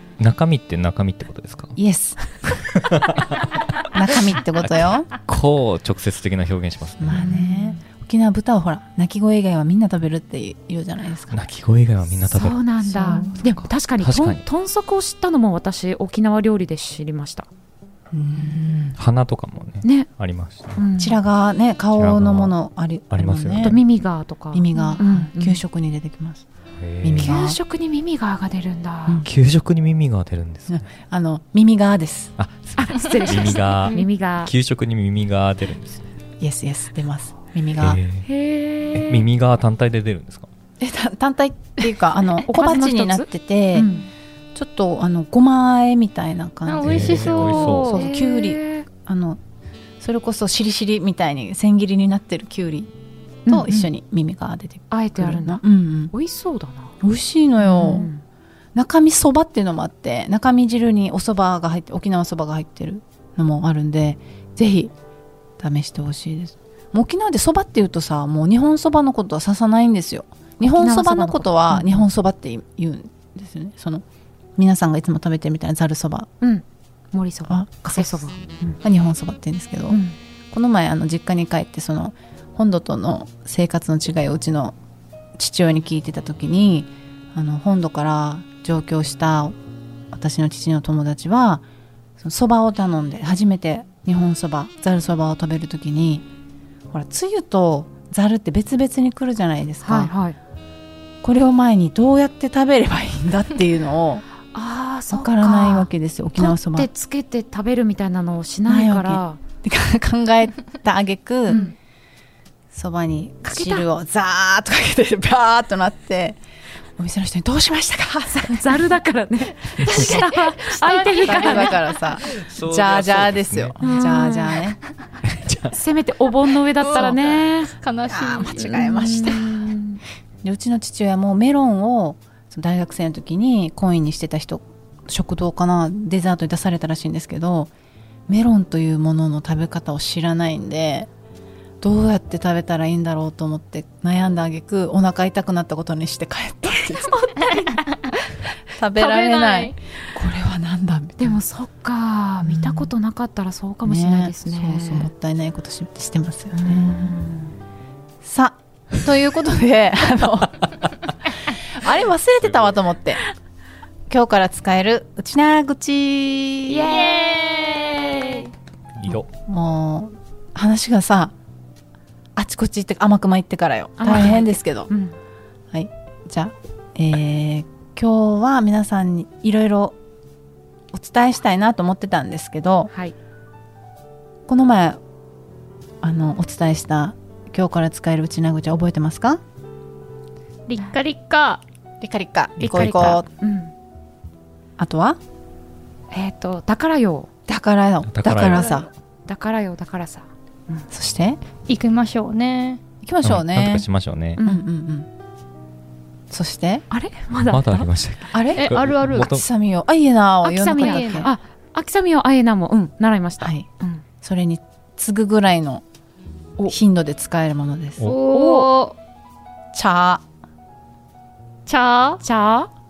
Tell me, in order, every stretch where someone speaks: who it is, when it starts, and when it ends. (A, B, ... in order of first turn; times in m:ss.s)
0:00.2-0:01.8 A
0:01.8-0:02.6 B
0:02.7-0:07.3 A
0:03.9-0:05.1 B
0:07.0-0:11.4 B
0:07.1-0:07.8 C
0:11.3-0:14.4 A
0:12.3-0:17.5 C
0:12.8-0:13.4 B
0:18.1-0:19.0 B
0:19.0-0:20.8 A
0:19.8-0:20.1 C
0:20.8-0:21.2 C
0:21.0-0:23.8 B
0:21.9-0:22.5 A
0:23.1-0:23.8 A
0:23.6-0:25.6 C
0:24.5-0:26.4 B
0:26.8-0:27.4 A
0:27.0-0:27.6 B
0:27.2-0:29.2 C
0:29.2-0:30.9 A
0:30.7-0:32.3 B
0:32.4-0:36.1 A
0:32.8-0:34.5 C
0:36.4-0:38.0 B
0:37.8-0:38.3 A
0:38.2-0:39.2 C
0:38.9-0:40.5 A
0:40.8-0:43.9 B
0:42.4-0:44.1 C
0:44.5-0:49.4 B
0:46.6-0:48.0 D
0:46.8-0:48.0 A
0:47.6-0:48.8 C
0:50.0-0:52.9 B
0:53.4-0:53.9 C
0:53.5-0:56.1 B
0:54.9-0:56.9 C
0:57.0-0:58.1 B
0:57.6-0:58.2 C
0:58.7-1:04.9 B
1:05.6-1:14.0 B
1:10.6-1:12.0 C
1:14.6-1:16.3 B
1:16.4-1:18.4 C
1:17.5-1:20.0 B
1:19.9-1:20.1 C
1:20.5-1:24.8 B
1:25.4-1:29.5 B
1:30.1-1:31.6 B
1:32.2-1:36.2 B
1:36.9-1:40.1 B
1:39.8-1:40.4 C
1:41.2-1:44.2 B
1:44.5-1:49.4 C
1:45.1-1:46.9 B
1:48.7-1:51.6 B
1:51.5-1:51.7 C
1:52.7-1:56.4 B
1:53.4-1:53.8 C
1:57.0-1:58.8 B
1:58.3-2:01.8 C
1:59.8-2:02.0 D
2:01.1-2:04.8 B
2:02.3-2:03.8 A
2:03.8-2:04.6 C
2:05.3-2:05.7 A
2:05.7-2:07.7 C
2:06.8-2:08.9 D
2:08.1-2:09.7 B
2:08.6-2:10.0 C
2:10.4-2:17.7 B
2:18.3-2:21.1 B
2:21.8-2:27.1 B
2:26.8-2:27.8 C
2:27.5-2:28.4 D
2:28.7-2:31.4 B
2:28.9-2:29.7 D
2:31.2-2:35.1 C
2:32.4-2:32.9 B
2:33.8-2:37.2 B
2:36.6-2:37.5 C
2:38.2-2:40.7 B
2:41.5-2:43.2 B
2:44.1-2:47.0 B
2:46.7-2:48.4 C
2:49.0-2:49.3 A
2:49.1-2:51.3 B
2:52.4-2:54.9 B
2:54.0-2:55.2 C
2:55.7-3:00.0 B
3:00.9-3:02.9 B
3:04.5-3:05.0 B
3:06.0-3:09.4 B
3:10.7-3:11.6 D
3:12.0-3:13.3 B
3:12.6-3:13.7 C
3:14.8-3:15.2 B
3:16.1-3:17.3 C
3:17.5-3:18.9 B
3:18.0-3:18.8 A
3:19.3-3:20.9 C
3:20.9-3:21.4 B
3:21.7-3:22.8 D
3:23.0-3:23.8 B
3:23.2-3:24.4 A
3:24.4-3:24.6 C
3:24.4-3:25.1 B
3:26.3-3:26.8 B
3:26.9-3:27.9 C
3:27.5-3:29.4 A
3:28.3-3:31.3 B
3:28.5-3:29.3 D
3:30.4-3:34.0 C
3:30.7-3:31.3 D
3:33.4-3:33.7 B
3:34.2-3:35.8 B
3:36.7-3:38.1 B
3:38.0-3:39.0 D
3:38.3-3:38.7 C
3:39.7-3:40.2 B
3:41.6-3:42.2 D
3:42.2-3:42.7 C